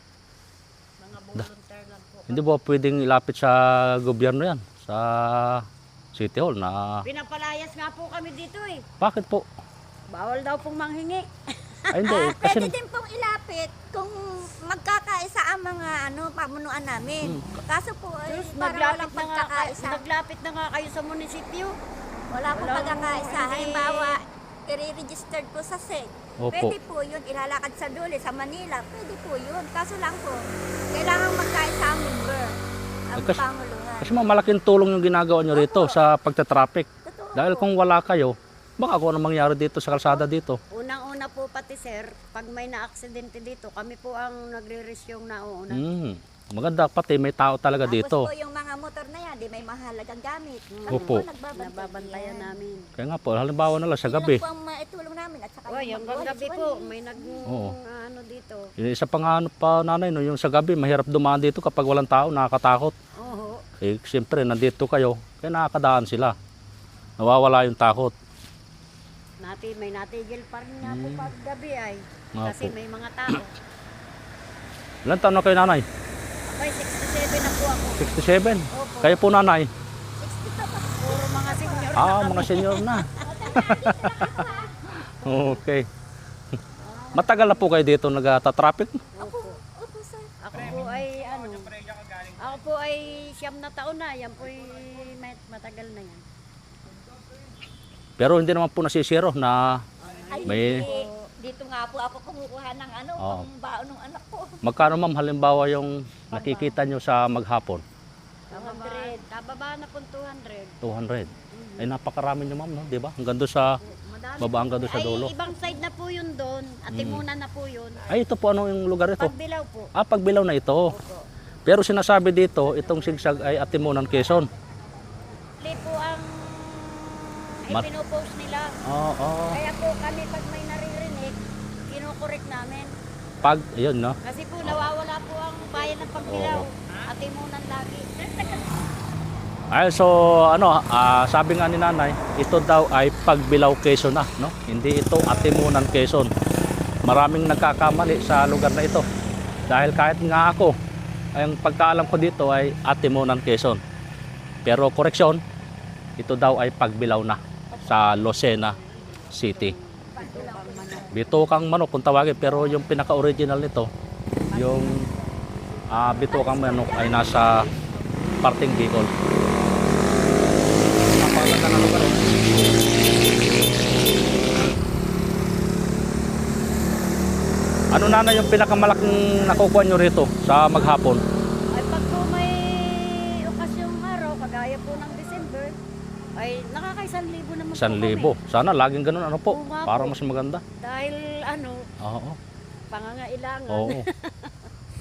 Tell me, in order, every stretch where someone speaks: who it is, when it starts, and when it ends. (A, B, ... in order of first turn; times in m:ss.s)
0:01.0-0:02.5 A
0:02.3-0:07.1 B
0:07.1-0:08.8 A
0:09.0-0:09.5 B
0:10.1-0:12.4 A
0:11.9-0:12.7 B
0:12.1-0:20.0 C
0:18.3-0:21.8 A
0:22.3-0:32.6 C
0:22.5-0:24.2 A
0:26.4-0:26.8 B
0:33.1-0:34.2 C
0:33.2-0:33.4 B
0:34.0-0:40.6 B
0:35.5-0:36.0 C
0:37.0-0:37.7 C
0:40.7-0:45.8 A
0:45.7-0:48.3 B
0:47.8-0:52.5 C
0:50.7-0:52.9 A
0:50.9-0:51.2 B
0:53.0-0:54.4 B
0:54.1-0:57.4 C
0:55.7-0:58.7 A
0:57.5-0:57.7 B
0:58.8-1:03.0 B
1:03.2-1:03.6 A
1:03.8-1:06.4 B
1:07.2-1:08.1 B
1:09.4-1:13.5 A
1:10.8-1:11.3 B
1:12.4-1:12.7 B
1:15.0-1:15.9 B
1:16.5-1:18.1 A
1:18.0-1:19.7 B
1:18.7-1:19.3 A
1:20.2-1:25.0 C
1:21.0-1:23.4 A
1:22.0-1:24.5 B
1:25.2-1:25.9 B
1:26.8-1:27.6 A
1:27.1-1:29.1 B
1:29.2-1:29.6 A
1:29.2-1:30.3 C
1:30.4-1:31.7 A
1:30.6-1:31.0 B
1:32.4-1:36.2 A
1:38.2-1:39.8 B
1:40.0-1:41.1 A
1:40.3-1:44.6 C
1:40.4-1:40.9 B
1:43.2-1:43.5 B
1:44.6-1:47.8 B
1:46.4-1:46.7 C
1:48.5-1:50.8 A
1:48.5-1:49.2 C
1:50.8-1:53.8 B
1:51.5-1:51.9 A
1:53.8-1:58.0 A
1:54.4-1:55.3 B
1:56.9-1:57.2 B
1:58.1-1:59.3 B
1:59.2-1:59.9 A
2:00.0-2:00.9 B
2:00.9-2:01.3 A
2:01.7-2:04.5 B
2:05.6-2:06.9 A
2:07.7-2:08.8 A
2:08.8-2:09.6 B
2:09.5-2:11.4 A
2:11.9-2:12.9 A
2:13.4-2:14.9 B
2:14.2-2:18.7 A
2:16.3-2:16.7 B
2:19.7-2:26.3 B
2:27.0-2:29.1 B
2:29.7-2:30.8 B
2:31.4-2:33.8 B
2:34.6-2:35.4 B
2:36.2-2:38.8 B
2:39.3-2:39.8 B
2:39.5-2:41.3 A
2:40.1-2:41.2 C
2:41.1-2:43.9 B
2:44.5-2:45.3 A
2:44.5-2:45.1 B
2:45.9-2:47.7 B
2:45.9-2:47.3 A
2:48.4-2:49.1 B
2:51.2-2:52.3 B
2:51.3-2:51.7 A
2:57.9-3:01.2 B
3:01.7-3:05.8 A
3:06.4-3:08.4 A
3:07.7-3:10.6 B
3:09.5-3:10.2 A
3:10.8-3:11.8 A
3:12.0-3:12.4 B
3:12.9-3:14.5 A
3:13.7-3:14.1 B